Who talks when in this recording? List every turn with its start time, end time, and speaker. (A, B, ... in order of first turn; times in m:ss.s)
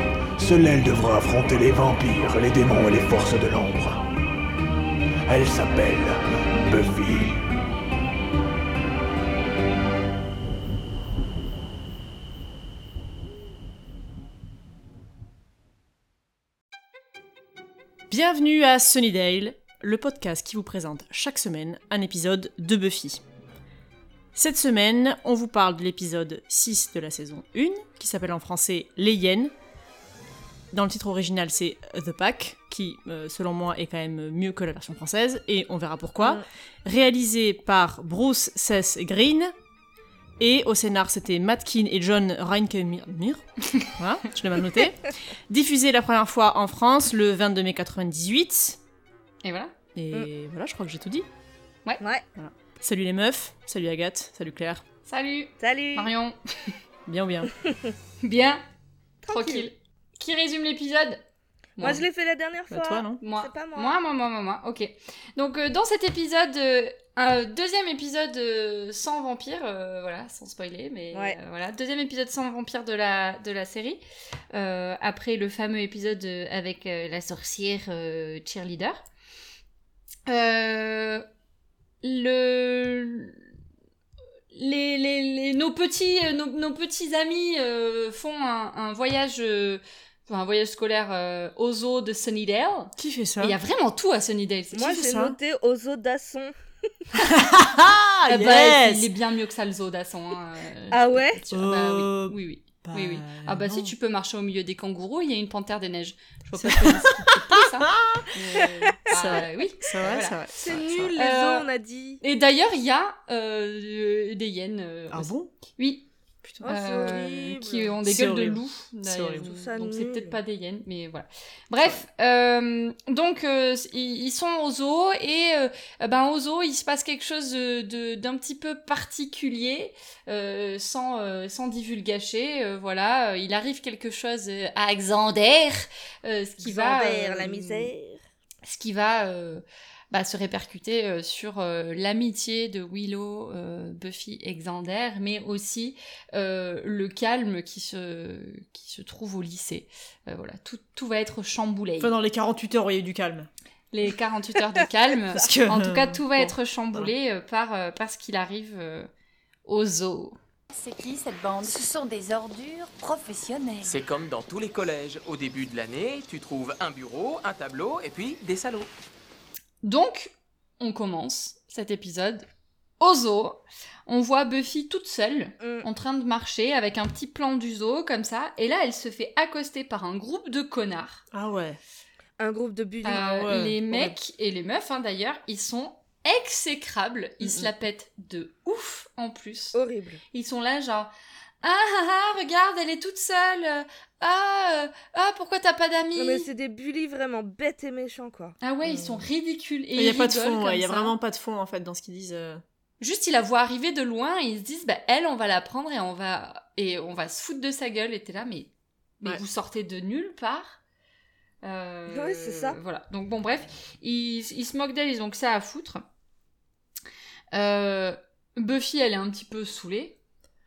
0:00.4-0:04.1 A
0:05.3-0:07.4 A
0:18.1-0:23.2 B
0:24.3-0:29.5 B
0:30.7-0:39.5 B
0:40.4-0:48.8 B
0:49.4-0:49.7 C
0:49.9-0:51.3 B
0:52.4-0:54.8 B
0:55.0-0:56.7 C
0:55.6-0:56.1 D
0:57.1-0:57.5 B
0:57.6-0:57.9 D
0:58.2-0:58.6 C
0:59.2-0:59.7 D
0:59.3-1:01.2 C
1:01.8-1:04.0 D
1:02.7-1:03.2 B
1:03.2-1:19.0 C
1:11.1-1:11.4 D
1:20.3-1:21.2 C
1:22.0-1:23.4 C
1:24.5-1:35.0 C
1:33.0-1:33.6 B
1:34.7-1:36.5 D
1:34.9-1:35.4 B
1:37.1-1:39.1 B
1:38.3-1:47.9 C
1:40.9-1:41.4 D
1:41.5-1:43.9 B
1:46.6-1:51.2 B
1:48.6-1:50.4 C
1:50.6-1:52.2 D
1:51.2-1:51.6 C
1:52.2-1:56.1 C
1:55.1-1:55.5 B
1:56.6-1:57.9 D
1:56.6-2:17.9 C
1:58.0-1:59.5 B
1:59.4-2:00.4 D
2:16.6-2:18.2 D
2:18.6-2:32.1 C
2:32.0-2:33.5 B
2:33.9-2:39.1 C
2:35.3-2:37.1 B
2:39.6-2:40.4 C
2:40.7-2:44.0 E
2:43.8-2:48.9 F
2:49.8-2:52.5 C
2:53.0-3:01.2 C
2:55.6-2:55.8 D
3:01.3-3:01.8 B
3:02.4-3:03.5 D
3:03.0-3:09.8 C
3:03.1-3:04.2 B
3:07.4-3:07.7 B
3:09.7-3:10.2 D
3:10.3-3:16.4 C
3:16.2-3:19.2 D
3:18.6-3:21.2 C
3:19.9-3:22.6 B
3:23.0-3:30.8 C
3:31.6-3:36.0 C
3:32.1-3:32.8 D
3:37.5-3:40.2 C